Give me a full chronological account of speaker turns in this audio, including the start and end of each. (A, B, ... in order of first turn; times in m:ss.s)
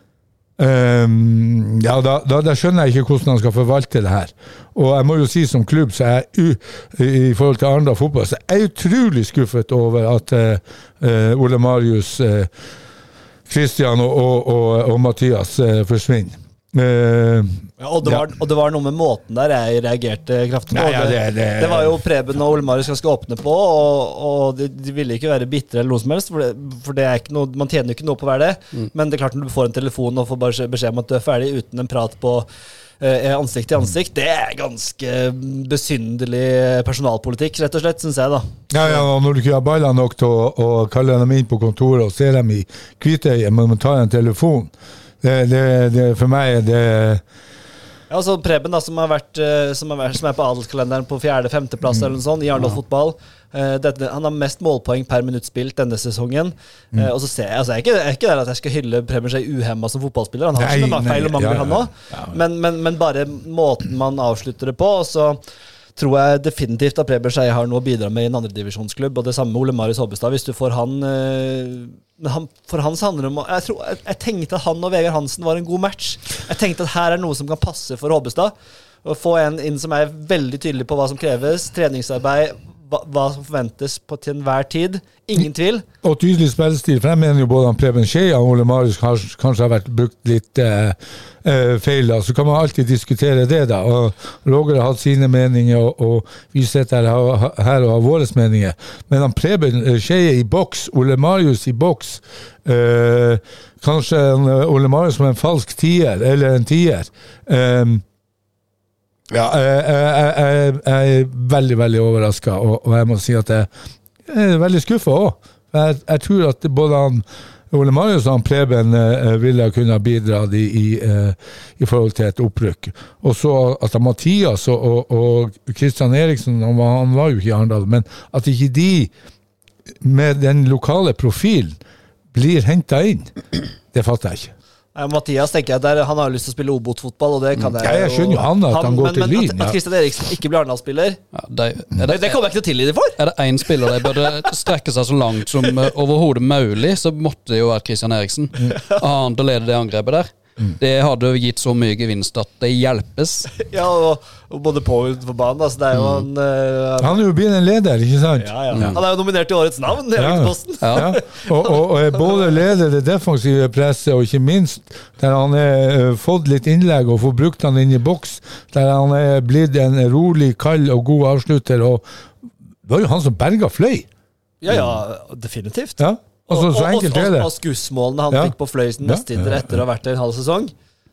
0:00.6-0:12.5 A
0:13.5-0:18.2 A
0:17.8-0:32.5 B
0:20.7-0:22.0 A
0:33.0-0:39.0 B
0:38.7-0:47.2 A
0:48.1-1:05.4 B
1:00.6-1:02.4 A
1:06.0-1:25.8 B
1:26.0-1:48.0 A
1:49.3-1:53.7 A
1:54.3-2:09.1 A
2:10.0-2:11.8 A
2:12.3-2:13.3 A
2:13.9-2:14.5 A
2:14.9-2:21.2 B
2:17.8-2:19.8 A
2:21.3-2:22.4 C
2:22.0-2:23.2 B
2:23.2-2:33.5 C
2:23.8-2:24.5 B
2:33.5-2:37.2 B
2:37.0-2:39.0 A
2:38.4-2:42.5 B
2:38.7-2:39.0 C
2:40.2-2:52.0 A
2:40.8-2:41.1 C
2:52.8-2:54.1 A
2:54.6-3:00.7 B
2:56.0-2:57.5 A
2:58.3-2:59.8 A